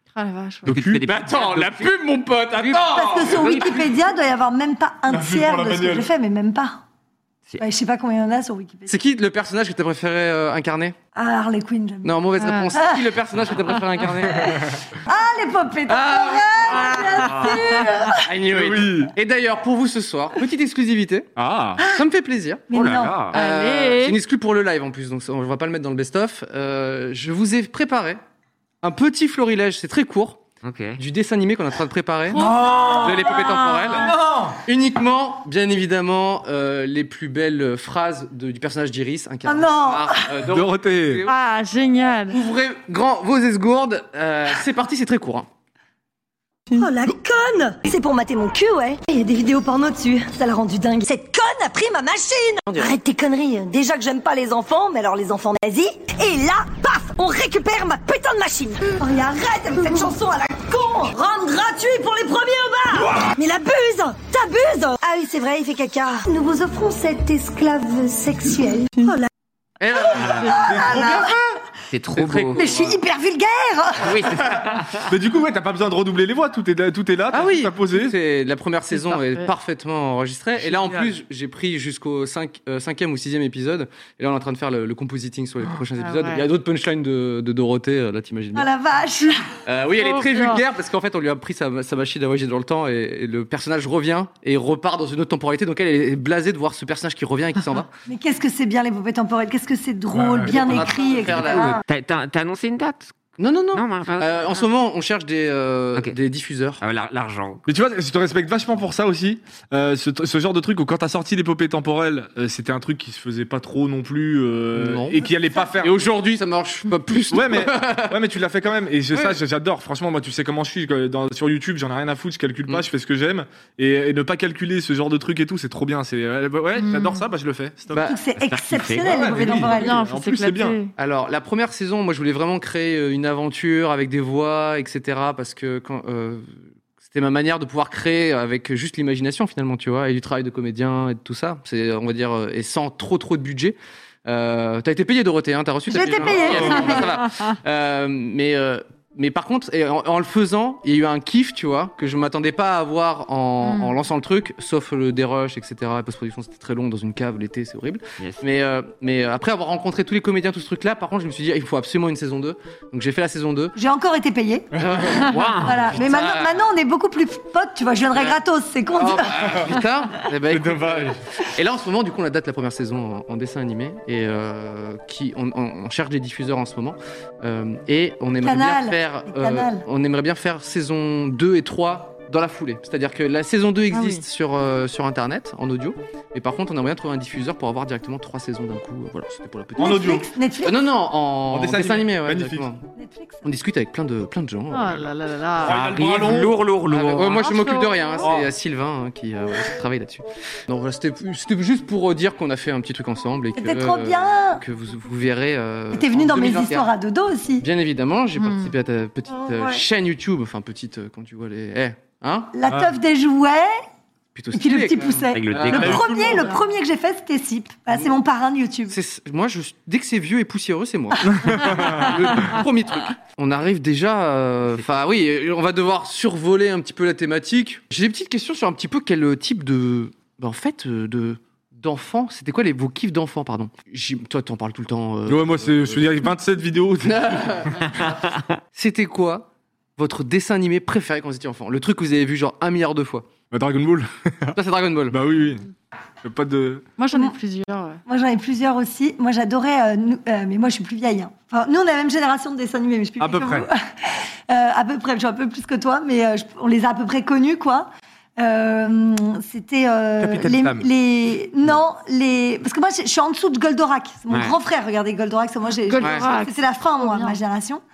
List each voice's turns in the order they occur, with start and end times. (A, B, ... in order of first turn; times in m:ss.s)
0:00.2-0:00.7 A
0:00.6-0:01.0 B
0:00.7-0:01.9 C
0:01.0-0:04.0 D
0:02.9-0:06.8 E
0:03.4-0:03.7 C
0:05.1-0:06.1 B
0:07.6-0:09.0 E
0:08.9-0:11.0 D
0:11.2-0:12.2 E
0:12.0-0:14.7 D
0:12.4-0:12.8 A
0:12.8-0:13.1 E
0:14.4-0:14.7 B
0:15.1-0:18.3 E
0:15.9-0:17.6 D
0:17.2-0:17.5 C
0:18.2-0:21.3 D
0:18.5-0:19.1 B
0:21.4-0:21.9 B
0:21.8-0:22.6 D
0:22.7-0:23.3 E
0:22.7-0:23.4 C
0:23.3-0:28.2 D
0:23.3-0:24.2 A
0:28.8-0:30.4 D
0:30.6-0:31.0 C
0:31.0-0:41.4 D
0:32.3-0:33.1 A
0:32.3-0:34.6 B
0:39.5-0:40.4 E
0:40.5-0:41.2 B
0:41.3-0:42.4 A
0:42.3-0:45.5 D
0:46.8-1:09.3 E
0:52.7-0:53.0 D
1:09.8-1:10.8 D
1:09.9-1:11.3 E
1:10.2-1:10.5 C
1:10.5-1:11.5 B
1:11.9-1:12.6 C
1:12.2-1:13.0 D
1:12.6-1:14.5 E
1:14.0-1:15.1 C
1:15.1-1:18.1 B
1:17.3-1:28.7 D
1:19.1-1:19.5 A
1:20.6-1:21.1 B
1:26.0-1:26.5 A
1:28.5-1:29.5 E
1:29.7-1:37.9 D
1:30.0-1:30.6 A
1:38.1-1:41.8 E
1:40.1-1:40.9 B
1:40.4-1:41.8 D
1:41.5-1:41.7 B
1:41.8-1:43.2 C
1:43.4-1:46.8 D
1:43.7-1:44.6 C
1:46.8-1:47.7 C
1:47.7-1:56.0 B
1:54.7-1:58.2 D
1:57.3-2:08.1 B
1:59.1-1:59.4 D
2:06.8-2:07.2 A
2:07.9-2:08.2 D
2:08.0-2:10.0 E
2:08.4-2:09.6 C
2:09.0-2:10.8 B
2:09.7-2:10.9 A
2:11.0-2:43.8 D
2:25.9-2:27.1 E
2:26.2-2:27.1 B
2:33.6-2:34.0 A
2:43.8-2:44.7 E
2:44.8-2:46.6 D
2:44.8-2:45.3 B
2:45.3-2:45.9 C
2:45.6-2:49.5 E
2:49.0-3:12.8 D
2:50.5-2:51.2 B
2:58.4-2:59.8 E
3:03.9-3:04.2 A
3:09.8-3:10.2 B
3:09.8-3:10.9 E
3:11.5-3:12.7 B
3:13.0-3:13.4 E
3:13.4-3:15.1 D
3:14.7-3:15.7 A
3:15.6-3:16.6 B
3:15.6-3:17.4 C
3:16.9-3:26.9 D
3:17.2-3:18.3 A
3:18.2-3:18.5 B
3:23.6-3:24.6 E
3:25.9-3:27.7 E
3:27.6-3:32.5 D
3:28.4-3:28.7 A
3:29.4-3:29.8 E
3:32.5-3:33.7 E
3:32.7-3:32.9 B
3:34.4-3:36.0 D
3:34.5-3:39.0 E
3:35.3-3:36.1 C
3:35.7-3:36.5 B
3:38.9-3:56.2 D
3:41.2-3:42.5 B
3:55.3-3:57.9 B
3:57.0-3:57.9 D
3:58.1-3:58.4 C
3:58.7-4:03.3 D
4:03.5-4:04.6 B
4:04.6-4:05.2 D
4:05.1-4:05.6 B
4:06.2-4:06.9 B
4:07.0-4:08.0 A
4:08.1-4:27.8 E
4:13.2-4:13.7 B
4:20.2-4:20.9 B
4:24.3-4:24.6 C
4:25.9-4:27.4 A
4:26.0-4:26.3 D